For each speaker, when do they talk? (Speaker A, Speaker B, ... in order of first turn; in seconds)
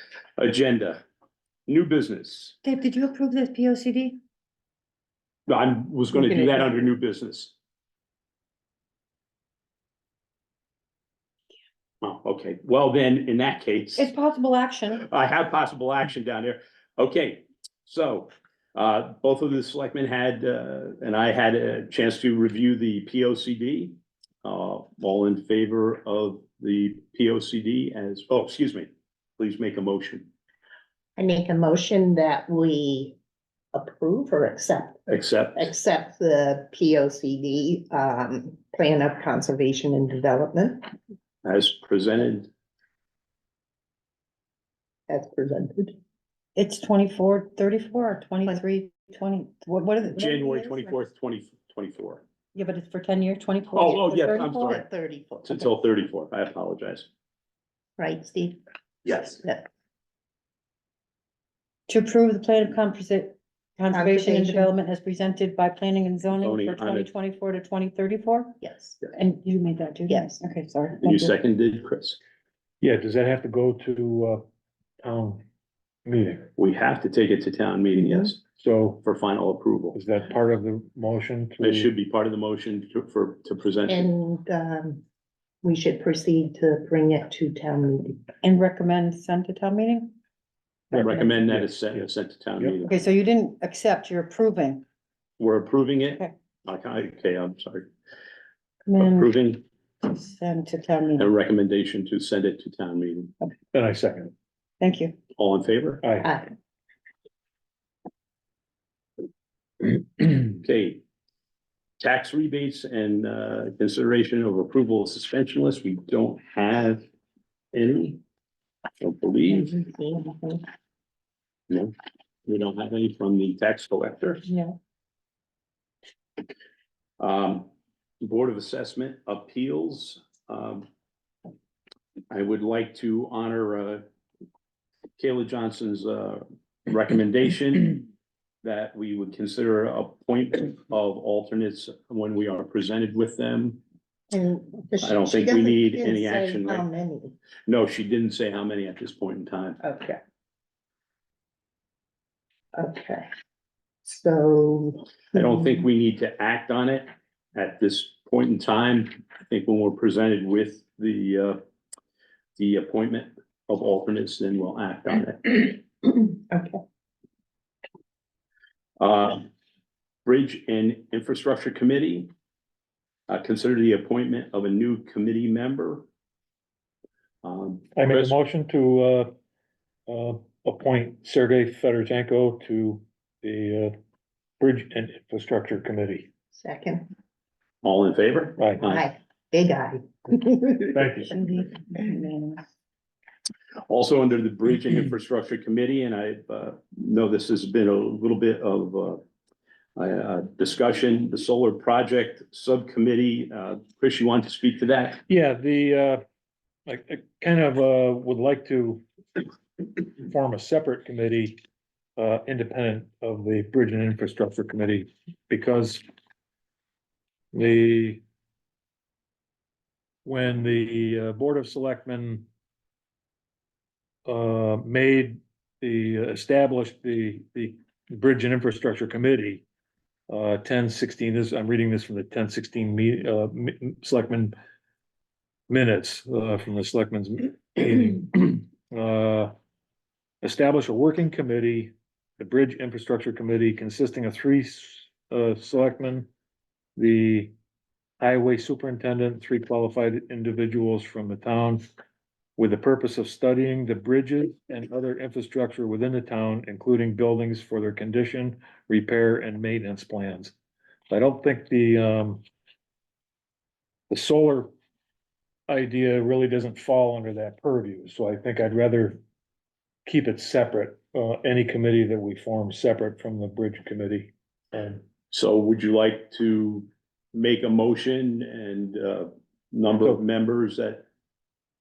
Speaker A: 0.4-1.0, 1.7-2.6, 5.5-7.5, 12.0-14.1, 15.0-30.3, 35.1-35.7, 41.4-42.5, 50.1-52.2, 53.7-54.9, 55.4-57.1, 66.4-67.1, 71.0-72.2, 76.6-78.4, 79.0-80.0, 81.6-84.1, 90.9-93.0, 95.4-97.9, 99.0-99.6, 101.2-103.3, 105.4-106.0, 110.6-111.0, 112.0-117.0, 117.7-118.2, 119.0-119.7, 121.7-121.9, 122.5-124.4, 127.2-127.7, 128.2-130.9, 132.3-134.0, 135.2-138.0, 138.6-143.8, 145.0-146.8, 147.7-149.8, 155.3-161.6, 162.6-165.8, 169.0-169.5, 170.2-172.3, 173.3-176.1, 177.4-178.4, 187.8-189.1, 193.9-199.2, 199.9-205.2, 275.3-281.0
Speaker B: 2.6-4.2, 14.0-15.1, 46.5-51.0, 52.5-54.7, 61.9-68.6, 69.1-71.3, 88.4-90.1, 92.8-94.8, 98.8-99.4, 100.0-101.3, 104.8-105.2, 191.3-192.6
Speaker C: 6.1-6.7, 31.2-33.2, 33.7-40.9, 45.1-46.0, 54.5-55.7, 58.0-59.7, 63.9-64.7, 68.6-69.0, 70.1-70.4, 78.0-78.3, 83.9-85.0, 85.6-88.2, 119.5-120.6, 144.3-147.3, 149.8-150.2, 152.7-153.3, 154.0-155.4, 166.0-166.8, 186.5-187.1, 188.8-191.0
Speaker D: 72.8-74.4, 75.0-75.4, 76.0-76.5, 78.5-79.0, 79.9-81.9, 90.9-92.8, 103.7-104.3, 106.0-106.3, 177.9-179.3, 180.1-183.9, 184.6-186.3, 188.6-188.8, 190.9-191.3, 205.3-206.2, 206.9-209.0, 209.8-211.6, 212.2-216.0, 217.5-218.2, 220.2-222.4, 224.2-229.6, 230.3-234.5, 235.7-239.5, 240.4-246.3, 246.9-247.5, 248.2-251.9, 252.6-260.5, 261.1-262.4, 264.1-264.7, 265.7-269.2, 270.0-275.0